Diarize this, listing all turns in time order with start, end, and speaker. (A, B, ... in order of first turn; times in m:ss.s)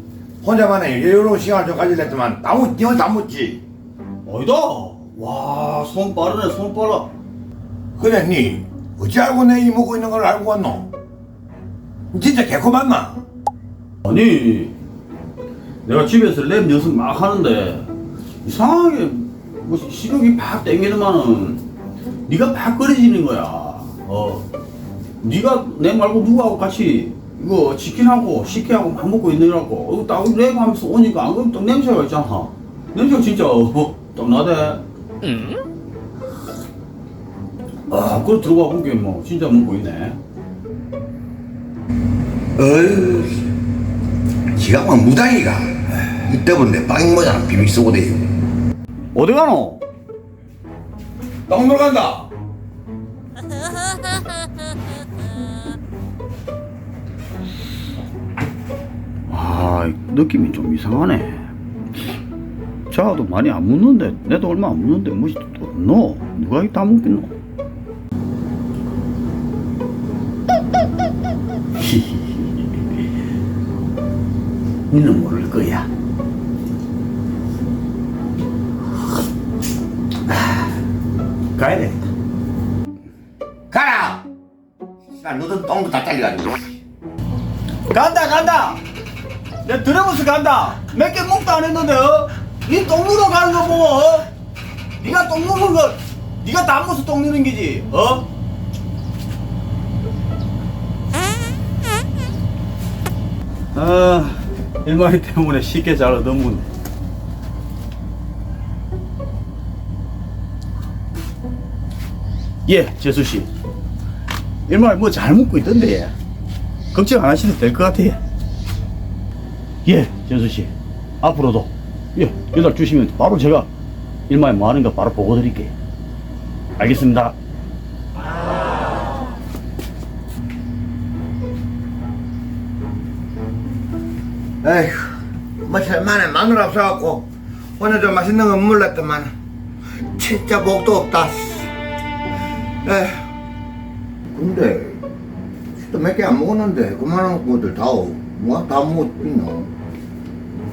0:00.4-0:03.6 A
0:04.2-0:07.1 B
0:08.0-0:10.9 A
0:12.1-0:13.2 A
0:14.0-0:14.7 B
0:15.8-0:17.9 B
0:18.4-0:21.6 B
0:22.3-0:24.4 B
0:25.2-0:34.8 B
0:37.9-0:40.2 B
0:42.6-0:43.5 A
0:44.5-0:48.3 A
0:49.1-0:49.8 B
0:51.5-0:52.3 A
0:59.3-1:01.4 B
1:02.9-1:07.3 B
1:11.8-1:12.5 B
1:14.9-1:15.9 B
1:20.3-1:20.5 B
1:21.6-1:22.0 B
1:23.7-1:24.2 A
1:25.2-1:26.8 A
1:27.9-1:28.8 B
1:29.6-1:34.3 B
1:35.0-1:38.3 B
1:43.7-1:46.7 B
1:52.6-1:53.5 B
1:54.7-1:56.1 B
1:56.9-1:58.2 B
1:59.8-2:03.7 B
2:04.3-2:05.7 B
2:06.8-2:07.3 B
2:14.6-2:19.3 A
2:20.0-2:21.7 A
2:22.8-2:23.2 A
2:24.3-2:25.0 A
2:25.8-2:29.7 A